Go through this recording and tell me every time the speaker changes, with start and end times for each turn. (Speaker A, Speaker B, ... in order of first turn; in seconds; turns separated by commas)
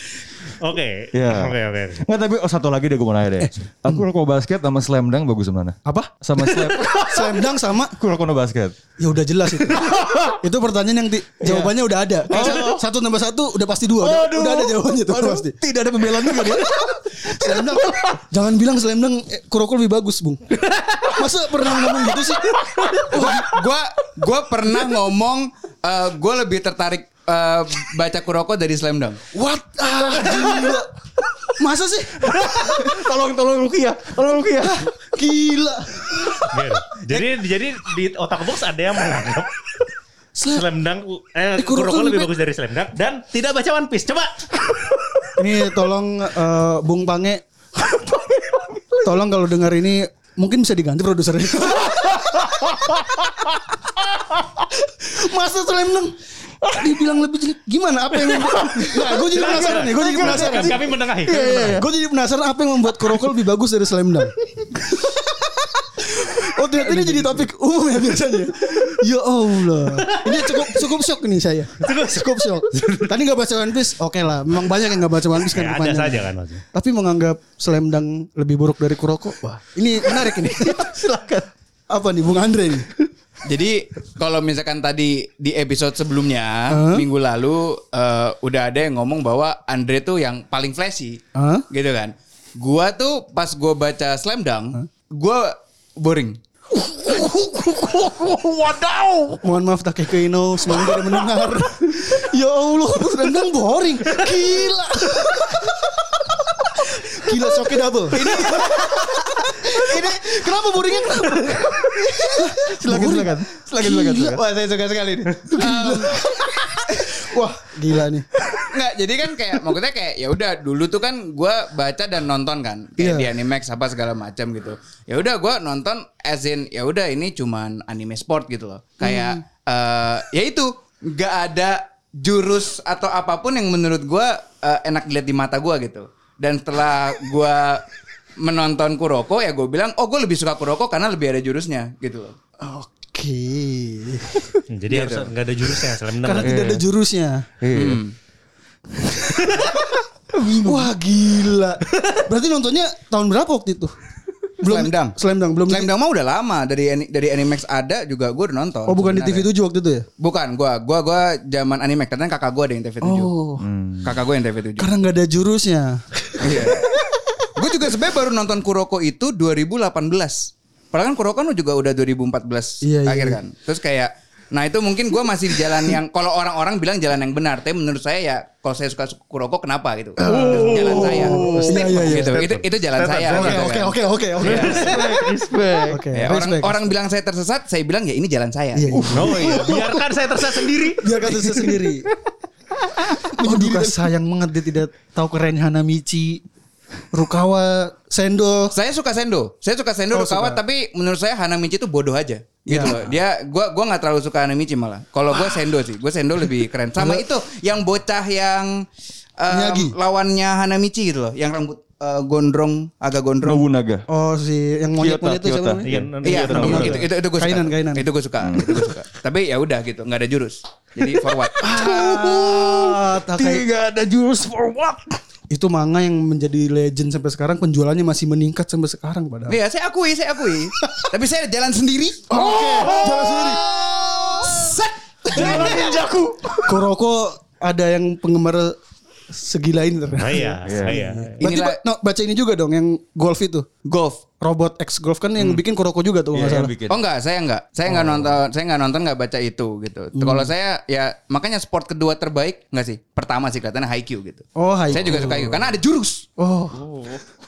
Speaker A: 0.6-2.0, Speaker B: 1.1-8.8, Speaker C: 3.4-4.0, Speaker C: 5.9-8.0, Speaker C: 9.0-15.5, Speaker B: 9.8-10.3, Speaker B: 11.4-11.7, Speaker B: 12.3-12.8, Speaker A: 12.3-12.6, Speaker B: 14.0-18.1, Speaker C: 16.3-23.6, Speaker A: 20.7-20.9, Speaker A: 22.6-23.0, Speaker D: 23.1-29.2, Speaker C: 29.3-30.9, Speaker B: 30.3-30.8, Speaker C: 31.6-33.0, Speaker B: 32.3-34.9, Speaker C: 34.7-36.5, Speaker A: 36.5-39.5, Speaker C: 40.4-40.6, Speaker A: 40.5-44.4, Speaker C: 41.5-42.3, Speaker C: 45.4-47.4, Speaker B: 47.8-49.2, Speaker C: 49.0-52.5, Speaker B: 51.8-54.7, Speaker C: 55.0-56.1, Speaker B: 56.7-56.9, Speaker C: 56.7-81.0, Speaker A: 58.4-61.8, Speaker B: 58.5-60.8, Speaker B: 61.4-61.9, Speaker B: 67.0-67.4, Speaker A: 69.9-70.8, Speaker A: 71.8-73.1, Speaker A: 75.4-76.6, Speaker B: 80.6-81.5, Speaker C: 81.9-82.9, Speaker D: 83.5-91.2, Speaker C: 86.7-87.1, Speaker C: 91.4-91.7, Speaker D: 91.7-96.4, Speaker A: 98.1-99.4, Speaker C: 99.4-106.0, Speaker C: 106.6-108.5, Speaker B: 108.1-110.3, Speaker D: 108.2-109.1, Speaker C: 109.4-116.4, Speaker B: 111.6-114.4, Speaker B: 115.4-115.9, Speaker D: 115.6-116.9, Speaker C: 116.9-118.3, Speaker D: 118.6-137.8, Speaker C: 123.0-123.3, Speaker C: 129.0-129.4, Speaker D: 138.4-142.3, Speaker C: 142.6-144.6, Speaker A: 144.7-146.6, Speaker D: 144.9-145.3, Speaker C: 146.2-147.5, Speaker B: 146.4-146.8, Speaker B: 147.6-148.0, Speaker D: 147.7-148.1, Speaker C: 149.5-149.8, Speaker C: 150.3-153.9, Speaker C: 154.6-155.9, Speaker D: 154.6-155.2, Speaker D: 155.7-159.5, Speaker C: 158.9-160.1, Speaker D: 160.2-163.3, Speaker C: 163.0-163.7, Speaker B: 163.6-164.1, Speaker D: 164.0-164.9, Speaker C: 164.8-167.0, Speaker D: 166.4-166.9, Speaker D: 167.6-183.9, Speaker C: 172.8-173.4, Speaker C: 180.2-182.4, Speaker B: 180.2-182.4, Speaker A: 182.3-183.8, Speaker C: 183.3-185.2, Speaker A: 184.4-185.2, Speaker B: 184.4-186.1, Speaker C: 185.9-186.9, Speaker D: 186.1-188.9, Speaker C: 188.8-190.1, Speaker B: 188.9-189.4, Speaker A: 189.1-191.8, Speaker C: 190.6-192.1, Speaker C: 193.2-196.4, Speaker B: 193.4-193.9, Speaker C: 197.1-198.7, Speaker D: 198.7-208.8, Speaker C: 200.1-200.6, Speaker C: 202.7-203.2, Speaker C: 207.0-207.2, Speaker D: 209.4-213.6, Speaker C: 209.5-209.9, Speaker B: 213.4-214.1, Speaker C: 214.1-215.9, Speaker B: 215.0-217.1, Speaker A: 215.8-217.0, Speaker D: 216.2-222.1, Speaker C: 216.5-218.1, Speaker B: 218.4-218.9, Speaker B: 221.0-225.1, Speaker C: 221.6-223.7, Speaker C: 225.5-229.6, Speaker D: 229.5-236.2, Speaker C: 232.3-233.6, Speaker B: 232.3-233.6, Speaker C: 235.3-235.9, Speaker B: 235.4-236.6, Speaker A: 235.4-235.9, Speaker C: 236.7-238.8, Speaker C: 239.3-243.7, Speaker A: 240.2-241.4, Speaker B: 240.6-241.2, Speaker D: 241.4-241.8, Speaker D: 243.8-244.2, Speaker C: 244.4-246.7, Speaker B: 246.3-247.0, Speaker D: 246.9-256.3, Speaker C: 250.2-250.5, Speaker C: 254.6-255.7, Speaker C: 256.4-256.8, Speaker B: 256.7-257.2